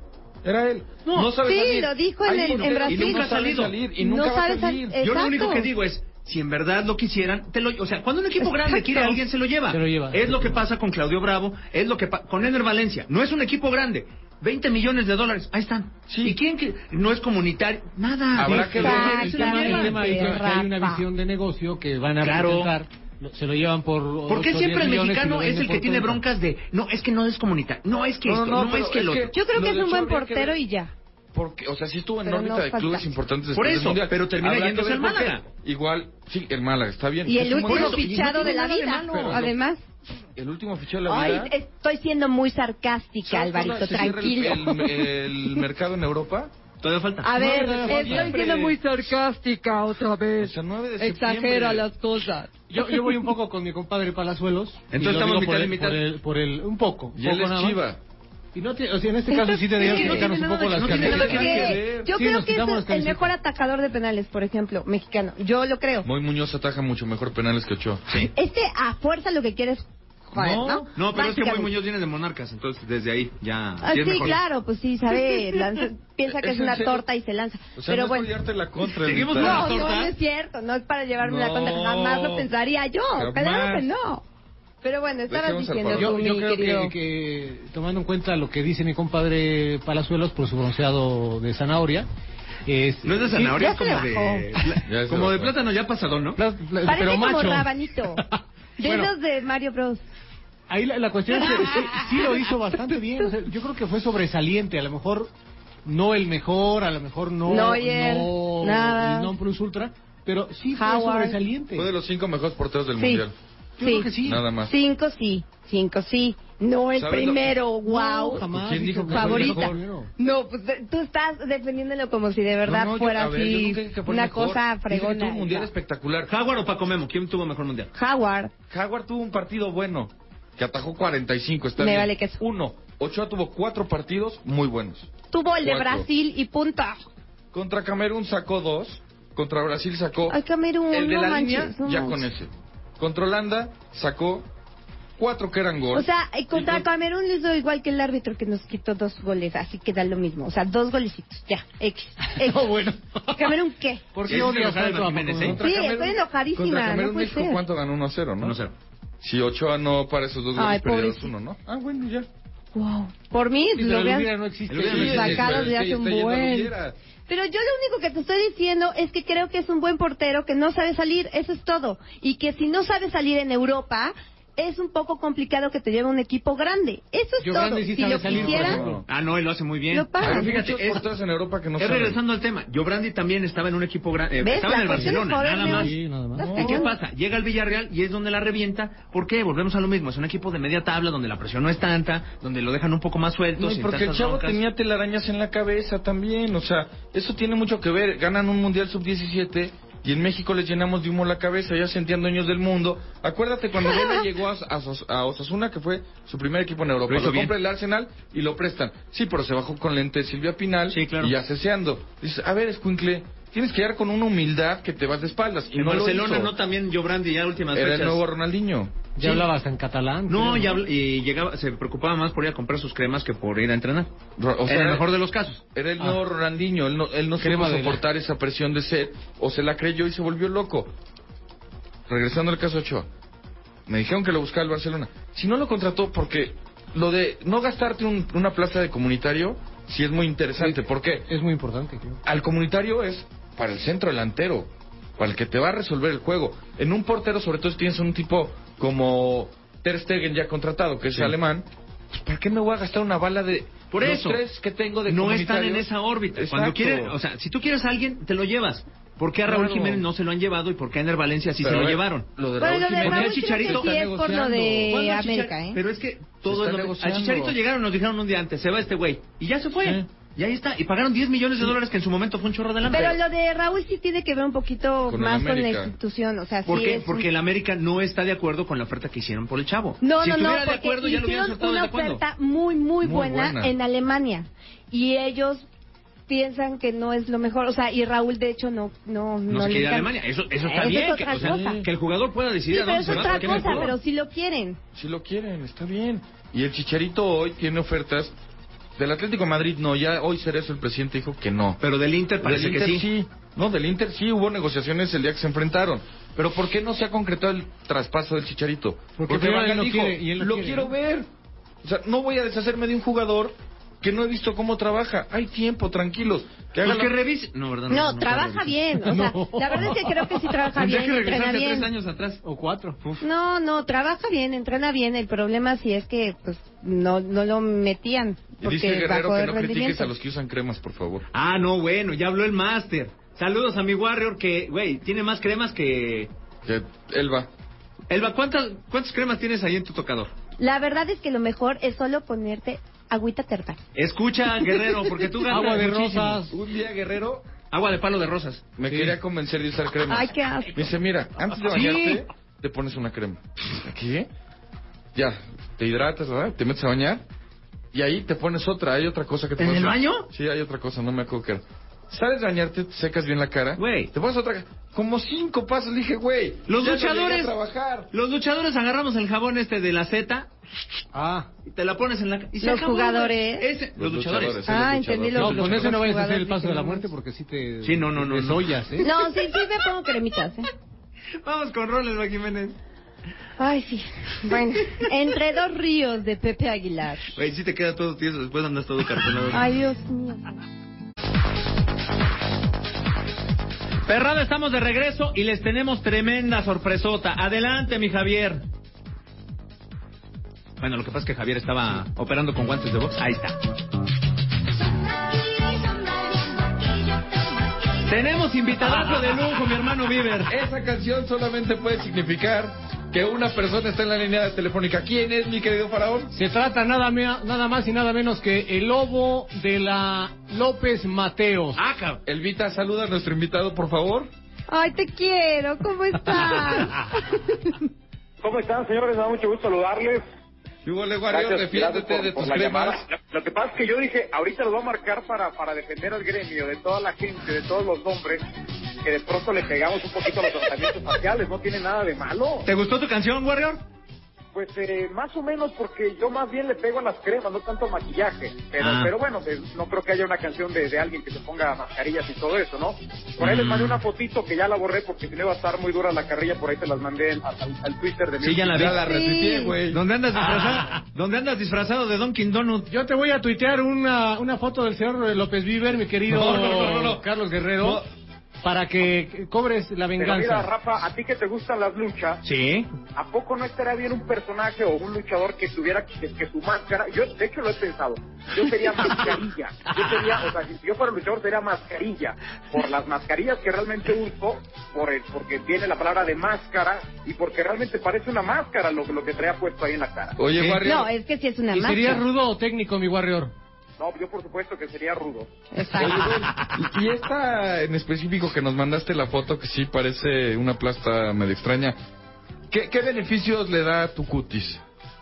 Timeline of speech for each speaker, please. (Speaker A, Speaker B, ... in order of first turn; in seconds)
Speaker A: 0.4-5.0, 16.1-16.4, 18.3-19.8, 28.2-30.6, 31.3-39.5, 40.4-41.5, 43.2-46.5, 47.7-48.5, 50.4-51.9, 57.1-58.0, 60.8-62.1, 66.0-68.0, 76.3-77.0, 77.8-79.9, 81.2-82.5, 83.1-83.9, 85.3-86.4, 94.8-95.5, 111.7-113.3, 114.2-114.7, 116.9-117.6, 118.5-119.8, 122.6-126.3, 128.7-135.1, 135.6-136.1, 137.5-140.4, 140.9-144.5, 145.2-146.9, 155.4-158.6, 159.2-162.3, 164.8-166.9, 178.3-179.0, 180.2-182.2, 186.3-186.8, 193.6-216.5, 217.7-218.9, 224.4-225.1, 225.7-230.9, 232.1-233.1, 233.9-241.3, 242.2-257.1, 259.4-260.1, 261.6-264.9, 266.5-267.6, 269.8-270.0, 275.1-275.9, 283.0-283.7, 291.3-291.9, 293.1-293.9, 294.9-298.3, 299.0-301.8, 302.4-311.3, 311.8-317.1, 328.6-331.2, 336.6-337.5, 346.5-347.4, 348.8-354.3, 355.1-357.2, 357.9-368.1, 374.0-376.0, 410.4-416.3, 422.2-424.3, 430.8-433.1, 458.7-460.0, 466.3-467.2, 490.4-491.1, 495.9-502.0, 502.7-504.8
Speaker B: 1.0-1.4, 2.5-3.7, 5.0-20.3, 22.2-22.7, 24.3-29.3, 33.5-35.5, 37.4-39.5, 46.8-48.6, 54.9-56.0, 59.8-61.8, 70.3-74.4, 79.0-80.2, 93.0-96.4, 126.3-127.9, 154.2-155.6, 158.4-158.7, 164.7-165.6, 179.1-181.1, 181.8-185.9, 186.5-194.6, 207.1-207.5, 210.9-211.3, 215.8-218.2, 220.3-224.1, 224.7-225.6, 253.9-254.4, 255.1-262.3, 263.0-264.1, 264.8-273.2, 276.6-282.2, 289.5-294.0, 301.8-303.1, 316.8-319.1, 320.5-322.4, 331.3-336.3, 338.1-340.3, 343.9-346.4, 347.7-348.7, 351.7-352.2, 359.6-360.3, 363.8-364.1, 366.7-367.5, 368.1-370.5, 371.6-374.6, 377.8-379.3, 381.4-382.8, 387.3-389.7, 394.1-398.6, 400.8-403.6, 408.0-410.5, 421.8-422.2, 442.7-443.8, 448.8-449.1, 453.4-454.0, 458.4-459.0, 459.9-462.9, 472.4-472.9
Speaker C: 1.4-3.3, 4.0-5.7, 8.4-9.2, 18.6-21.1, 29.3-30.9, 32.2-33.1, 37.2-39.8, 41.0-45.0, 47.2-52.5, 59.3-66.1, 68.3-71.7, 73.8-78.3, 79.2-84.2, 84.8-86.9, 93.6-94.4, 96.8-98.2, 98.8-100.0, 101.6-102.0, 107.5-109.3, 110.7-111.4, 113.0-113.2, 113.8-114.1, 114.6-118.5, 119.1-125.7, 127.9-128.5, 131.8-132.4, 135.3-137.0, 140.3-142.2, 145.9-152.7, 153.3-154.1, 155.6-157.6, 160.5-161.3, 162.7-164.3, 164.9-166.7, 167.3-178.8, 179.9-180.5, 184.4-186.9, 262.6-265.8, 272.8-277.3, 280.0-285.6, 286.3-291.8, 292.7-294.8, 317.9-321.9, 323.2-330.1, 340.6-343.8, 350.1-350.9, 372.6-373.7, 374.7-377.0, 379.0-380.7, 383.6-387.3, 389.5-390.6, 424.7-427.4, 458.9-459.8, 490.8-492.2, 495.7-496.5
Speaker D: 9.7-10.6, 18.4-26.2, 47.3-48.7, 52.7-57.8, 58.5-61.6, 62.1-63.3, 85.9-92.1, 92.7-94.3, 96.3-99.1, 100.7-105.3, 105.8-111.9, 113.8-114.4, 117.8-120.1, 152.3-153.6, 154.1-155.6, 163.7-165.7, 177.4-179.0, 185.0-186.4, 219.2-220.8, 227.4-228.0, 240.6-242.2, 309.2-310.9, 319.0-320.2, 322.4-323.0, 345.5-346.5, 348.9-349.1, 371.1-371.5, 375.4-379.1, 416.3-421.8, 462.9-468.0, 468.6-470.7, 491.7-493.5
Speaker E: 428.4-430.2, 431.3-438.4, 439.0-442.7, 444.5-458.9, 470.2-472.4, 473.1-490.4, 494.0-495.5